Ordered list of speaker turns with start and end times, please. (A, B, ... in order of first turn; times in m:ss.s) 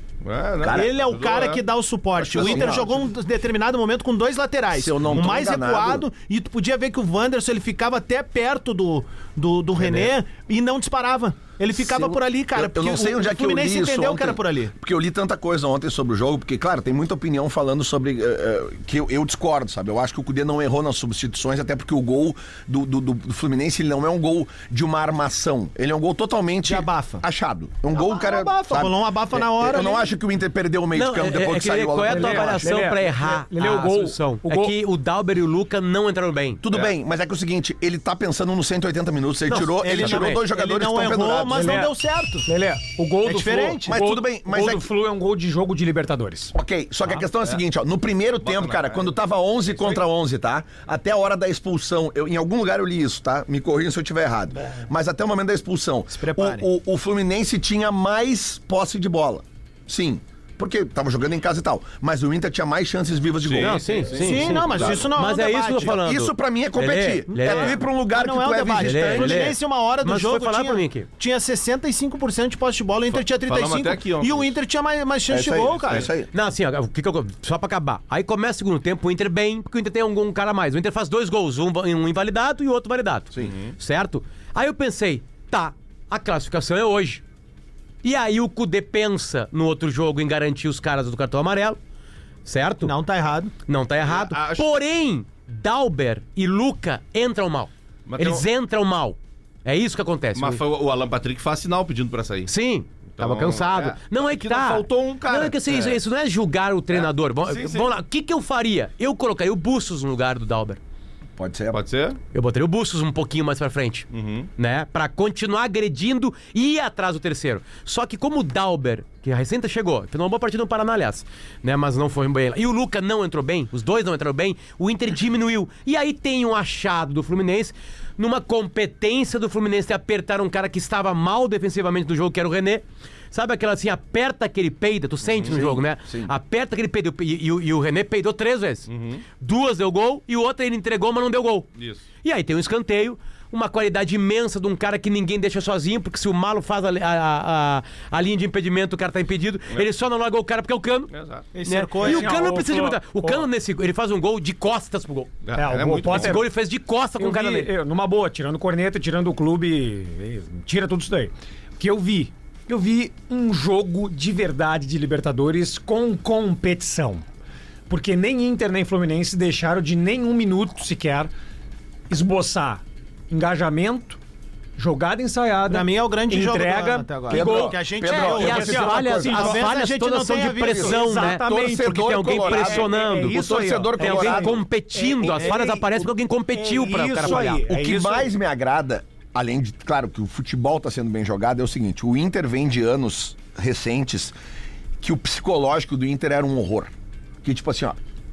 0:00.2-0:01.6 A
0:00.6-0:00.9 B
0:00.7-0:14.7 C
0:02.2-0:03.0 B
0:02.4-0:02.9 A
0:04.7-0:06.0 B
0:09.8-0:10.1 D
0:11.8-0:32.7 B
0:26.6-0:27.2 C
0:27.9-0:30.0 C
0:30.9-0:36.6 D
0:32.0-0:34.8 E
0:36.6-0:41.7 B
0:39.5-0:40.4 D
0:39.8-0:42.5 C
0:41.5-0:41.9 E
0:42.5-0:46.5 E
0:43.2-0:44.0 C
0:43.9-0:44.9 B
0:46.5-1:03.8 B
0:48.4-0:49.1 A
0:56.1-0:56.7 C
1:03.4-1:05.0 A
1:03.6-1:07.8 D
1:04.1-1:05.9 C
1:05.8-1:09.5 B
1:07.3-1:16.1 C
1:08.8-1:11.1 D
1:13.1-1:14.5 A
1:15.3-1:16.3 B
1:16.3-1:27.2 D
1:23.4-1:23.7 A
1:28.0-1:31.8 D
1:32.5-1:32.9 D
1:32.8-1:33.5 C
1:33.7-1:40.6 D
1:34.0-1:34.8 A
1:38.1-1:38.4 A
1:40.4-1:42.5 A
1:42.5-1:50.8 D
1:43.2-1:46.0 A
1:46.9-1:47.9 A
1:51.4-1:51.8 B
1:51.7-1:52.2 A
1:52.3-2:21.7 D
1:54.1-1:54.5 A
2:15.2-2:15.6 A
2:15.4-2:16.3 B
2:18.9-2:19.2 A
2:21.8-2:22.0 A
2:22.2-2:31.1 D
2:31.1-2:31.5 A
2:31.5-2:32.4 C
2:31.7-2:35.3 D
2:32.0-2:33.4 E
2:35.4-2:36.4 A
2:35.6-2:36.5 E
2:36.1-2:37.7 D
2:37.2-2:47.2 E
2:47.9-2:51.3 E
2:52.1-2:54.2 E
2:54.8-2:59.7 E
2:55.7-3:01.1 C
2:57.3-2:59.0 B
2:58.1-3:03.4 D
3:00.7-3:04.6 B
3:00.7-3:05.8 E
3:03.9-3:07.6 D
3:05.4-3:05.6 C
3:06.5-3:08.3 E
3:07.2-3:14.4 B
3:15.0-3:16.9 B
3:17.4-3:18.0 B